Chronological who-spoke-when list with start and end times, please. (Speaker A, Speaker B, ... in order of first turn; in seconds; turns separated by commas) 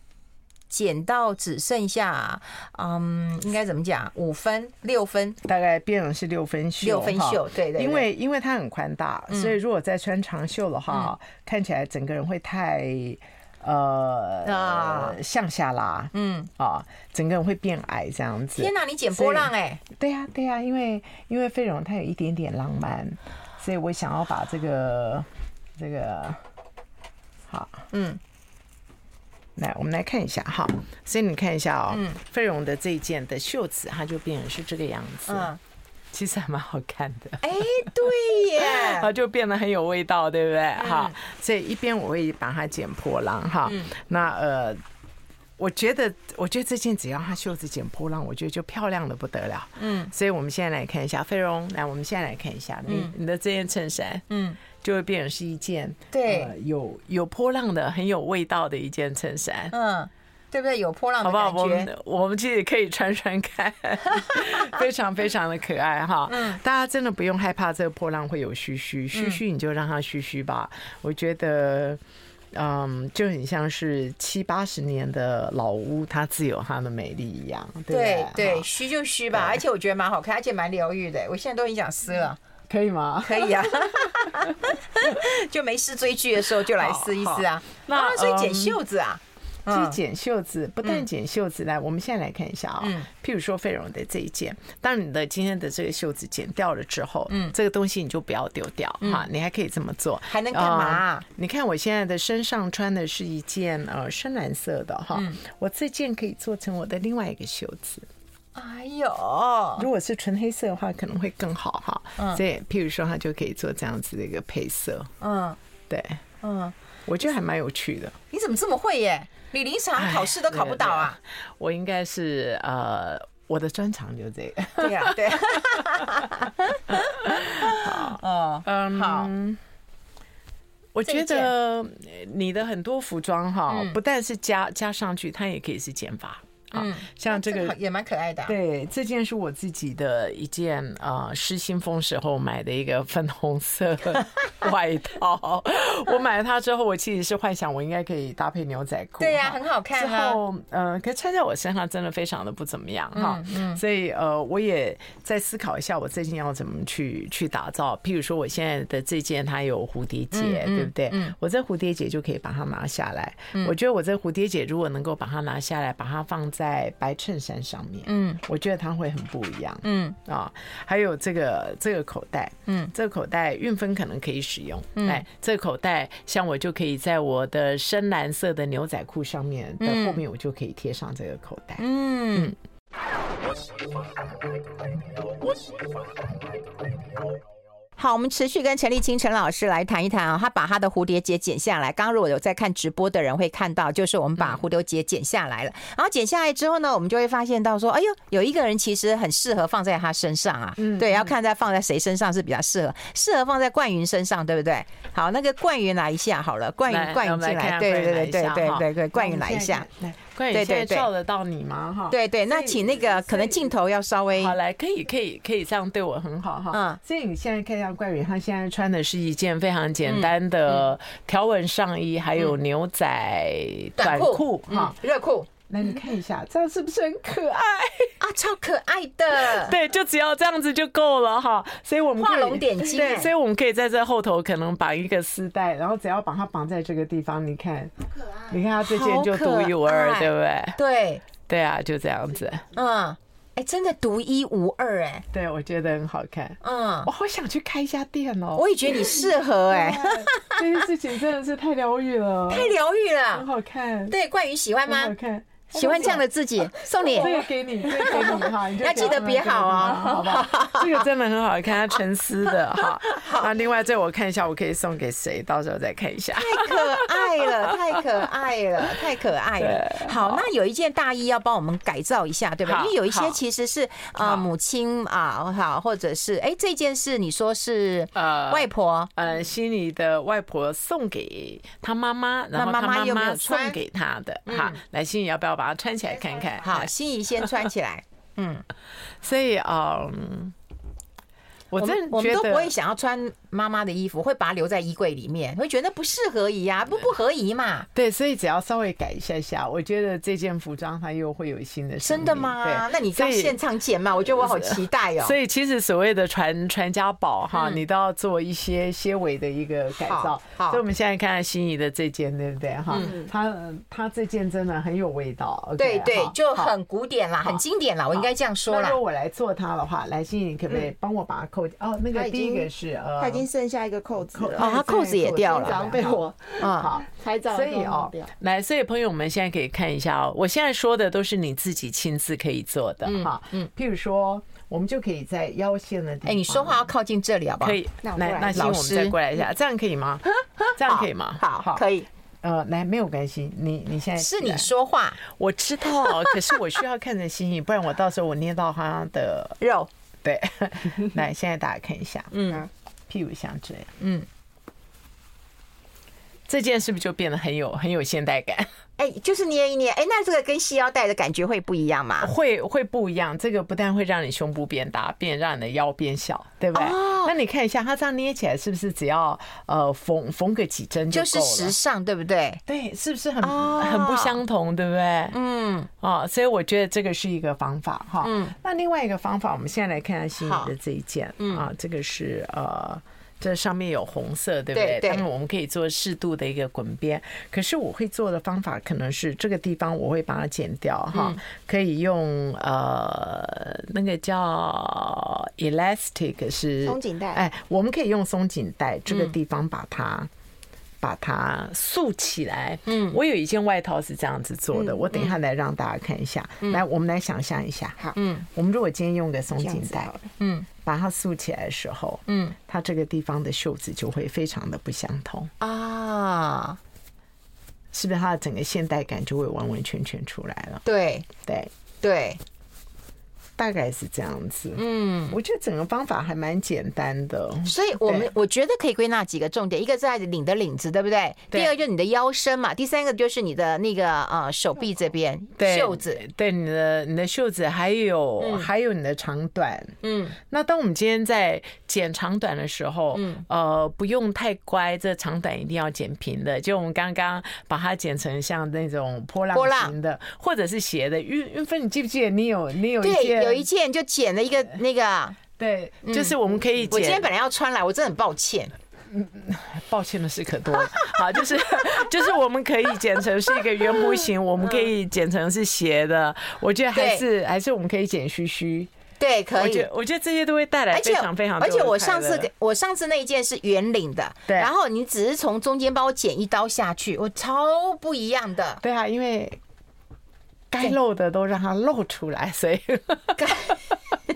Speaker A: 0.7-5.4, Speaker B: 5.4-26.4, Speaker A: 6.8-8.1, Speaker A: 9.3-9.5, Speaker A: 14.4-15.2, Speaker A: 16.1-16.5, Speaker A: 18.6-19.8, Speaker B: 27.5-27.9, Speaker A: 27.9-28.2, Speaker B: 29.6-35.5, Speaker A: 31.9-32.2, Speaker A: 35.3-35.6, Speaker B: 36.1-44.8, Speaker A: 37.4-39.1, Speaker A: 40.8-41.1, Speaker B: 45.6-54.2, Speaker A: 49.8-50.1, Speaker A: 52.9-53.1, Speaker A: 54.3-54.6, Speaker B: 54.8-59.7, Speaker A: 56.1-56.5, Speaker A: 59.7-61.9, Speaker B: 61.2-72.0, Speaker A: 66.3-66.6, Speaker A: 69.1-69.4, Speaker B: 72.5-78.7, Speaker A: 77.9-82.4, Speaker B: 79.3-79.6, Speaker B: 82.7-85.2, Speaker A: 83.2-90.0, Speaker B: 86.6-88.8, Speaker B: 89.7-108.1, Speaker A: 92.8-93.1, Speaker A: 97.3-97.5, Speaker A: 100.3-101.2, Speaker A: 108.5-109.9, Speaker B: 109.8-115.1, Speaker A: 112.2-112.4, Speaker A: 115.2-115.6, Speaker B: 115.9-116.2, Speaker A: 116.4-116.7, Speaker B: 117.0-118.2, Speaker A: 118.3-121.2, Speaker B: 120.0-126.2, Speaker A: 124.8-129.3, Speaker B: 126.9-129.6, Speaker B: 130.9-137.8, Speaker A: 131.0-131.5, Speaker A: 133.7-134.0, Speaker A: 136.7-138.5, Speaker B: 138.4-181.8, Speaker A: 149.2-150.4, Speaker A: 153.1-153.8, Speaker A: 160.3-161.3, Speaker A: 168.1-168.4, Speaker A: 169.8-170.2, Speaker A: 172.7-172.9, Speaker A: 174.9-175.2, Speaker A: 179.8-180.2, Speaker A: 181.8-182.5, Speaker A: 188.0-209.9, Speaker B: 194.4-194.6, Speaker B: 200.8-201.3, Speaker B: 206.9-213.7, Speaker A: 210.5-211.1, Speaker A: 212.1-214.6, Speaker B: 214.3-225.0, Speaker A: 216.7-217.0, Speaker A: 220.0-220.8, Speaker A: 224.0-225.5, Speaker B: 225.7-228.1, Speaker A: 228.2-229.7, Speaker B: 229.3-237.9, Speaker A: 232.2-233.3, Speaker C: 238.2-238.5, Speaker B: 238.5-240.8, Speaker A: 238.8-241.2, Speaker B: 241.5-242.7, Speaker A: 242.7-245.2, Speaker B: 245.3-252.7, Speaker A: 246.6-247.1, Speaker A: 248.5-250.8, Speaker A: 252.5-253.5, Speaker B: 253.3-254.2, Speaker A: 254.1-255.1, Speaker B: 254.9-256.2, Speaker A: 255.7-261.0, Speaker B: 256.8-268.0, Speaker A: 262.8-263.5, Speaker A: 266.4-279.1, Speaker B: 269.6-270.5, Speaker B: 272.6-273.4, Speaker B: 274.2-274.5, Speaker B: 278.1-286.9, Speaker A: 282.5-283.8, Speaker A: 284.4-284.8, Speaker C: 286.1-286.6, Speaker A: 286.6-288.6, Speaker B: 289.2-290.6, Speaker B: 291.7-292.7, Speaker A: 291.8-297.9, Speaker B: 297.9-303.6, Speaker A: 302.0-305.4, Speaker B: 304.1-316.7, Speaker A: 307.5-307.8, Speaker A: 310.0-310.8, Speaker C: 312.9-313.3, Speaker A: 315.8-319.0, Speaker B: 317.4-323.5, Speaker C: 322.1-328.3, Speaker B: 324.3-336.9, Speaker A: 324.6-326.0, Speaker A: 326.6-326.9, Speaker A: 333.0-333.7, Speaker A: 336.2-337.8, Speaker B: 337.6-340.2, Speaker C: 338.0-338.7, Speaker A: 338.5-339.2, Speaker A: 340.6-342.1, Speaker B: 340.8-341.8, Speaker B: 342.4-344.7, Speaker A: 344.2-345.2, Speaker B: 345.2-349.6, Speaker A: 346.0-346.5, Speaker A: 349.6-349.9, Speaker B: 350.2-352.4, Speaker A: 352.3-352.7, Speaker B: 353.1-353.9, Speaker A: 354.0-354.3, Speaker B: 356.5-358.7, Speaker A: 359.0-362.3, Speaker B: 362.2-371.8, Speaker A: 366.7-367.3, Speaker A: 371.1-372.6, Speaker B: 372.7-375.4, Speaker A: 373.4-374.4, Speaker A: 375.3-375.9, Speaker B: 376.0-400.3, Speaker A: 378.2-378.5, Speaker A: 380.4-380.7, Speaker A: 381.4-381.6, Speaker A: 384.7-385.2, Speaker A: 391.1-391.4, Speaker C: 396.8-397.4, Speaker A: 399.1-399.3, Speaker B: 401.0-410.1, Speaker A: 402.9-403.2, Speaker C: 404.7-405.1, Speaker A: 408.1-408.4, Speaker C: 409.6-410.3, Speaker A: 410.4-410.7, Speaker B: 410.8-415.5, Speaker A: 412.3-412.6, Speaker A: 415.6-416.8, Speaker B: 417.9-420.8, Speaker A: 420.8-421.3, Speaker B: 421.4-421.7, Speaker A: 422.0-422.4, Speaker B: 423.6-428.3, Speaker A: 424.7-425.4, Speaker A: 427.6-436.2, Speaker B: 431.5-431.8, Speaker B: 435.6-453.6, Speaker A: 438.4-438.7, Speaker A: 440.0-440.4, Speaker A: 443.1-443.4, Speaker A: 449.5-449.9, Speaker A: 453.0-455.4, Speaker B: 455.6-457.3, Speaker A: 456.0-456.3, Speaker A: 456.9-458.7, Speaker B: 459.1-468.9, Speaker A: 466.9-467.2, Speaker A: 469.2-469.9, Speaker B: 469.6-472.5, Speaker A: 470.9-478.8, Speaker B: 478.8-479.6, Speaker B: 480.7-483.9, Speaker A: 483.4-483.8